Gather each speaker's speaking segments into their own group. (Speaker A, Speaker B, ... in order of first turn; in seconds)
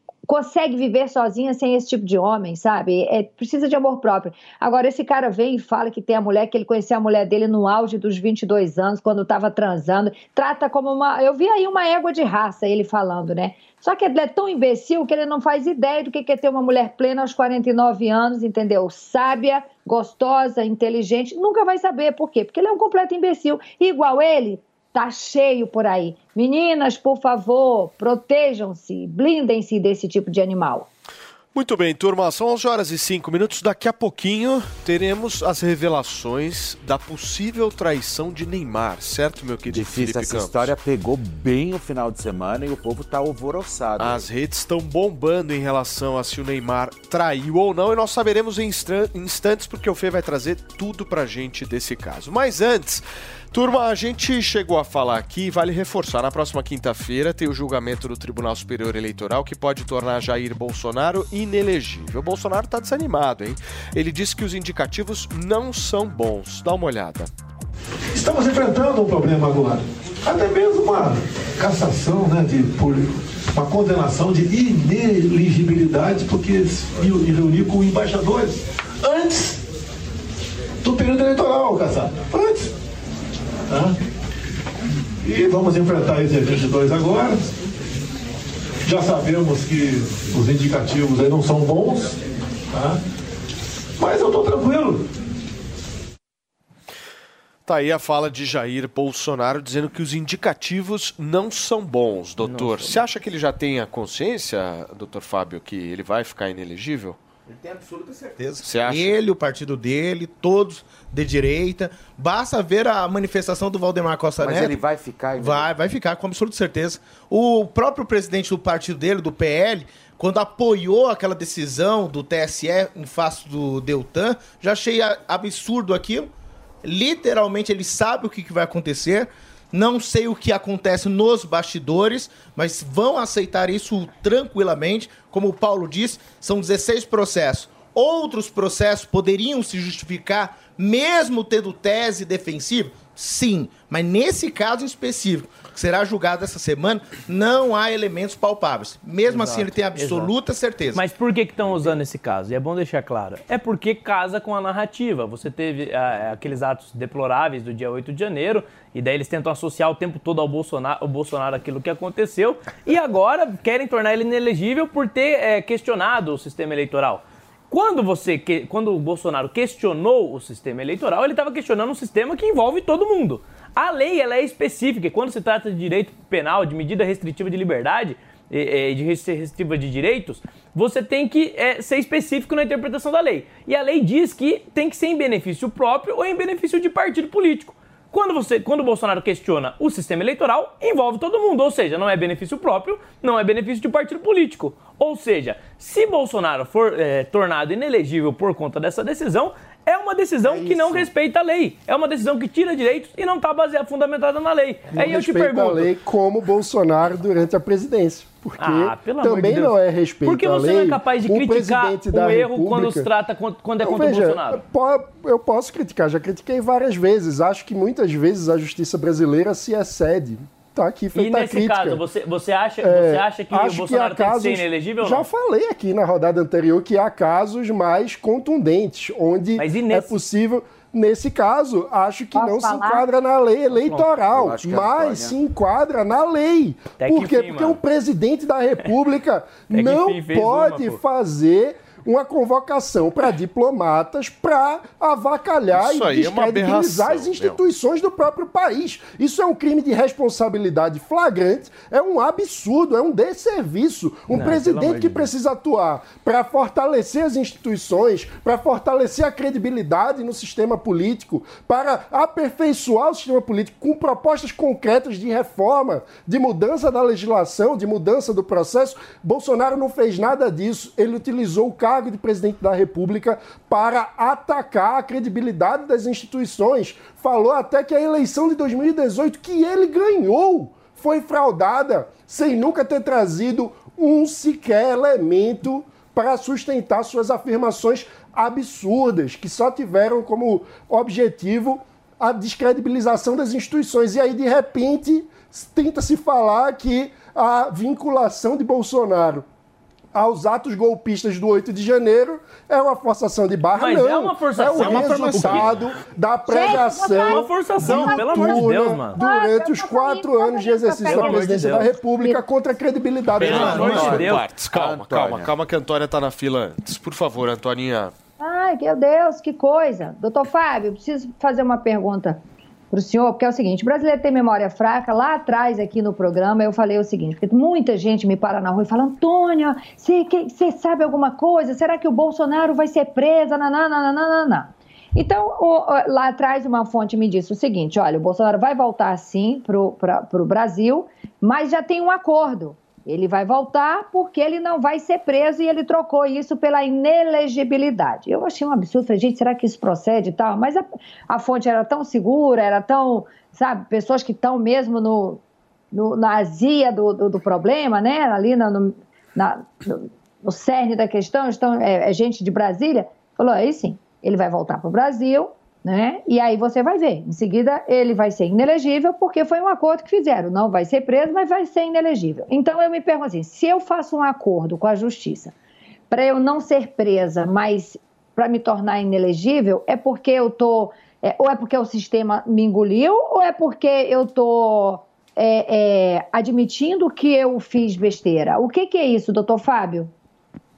Speaker A: 0.3-30.9, 232.3-233.1, 306.5-312.4, 318.4-355.4, 355.9-375.5, 376.1-390.1
Speaker B: 31.5-40.7, 44.0-67.3, 97.7-107.2, 108.6-109.2, 245.7-247.6, 313.4-318.1
Speaker C: 39.7-44.3, 114.4-115.7, 200.4-201.1, 234.2-235.3, 313.5-315.5
Speaker D: 68.2-73.0, 73.5-79.5, 80.8-82.5, 85.2-87.4, 88.9-92.1, 94.0-95.0
Speaker E: 102.4-103.0, 149.3-150.3, 150.9-205.9, 208.6-214.6, 221.1-225.3, 229.6-230.2, 237.0-237.8, 239.7-241.0, 254.3-255.3, 303.8-305.8, 307.1-309.2, 311.0-311.9, 313.5-314.4
Speaker F: 107.5-114.8, 115.4-126.3, 126.8-151.0, 304.8-305.6, 313.5-313.8
Speaker G: 204.9-213.1, 213.8-222.0, 222.8-299.4, 300.1-314.2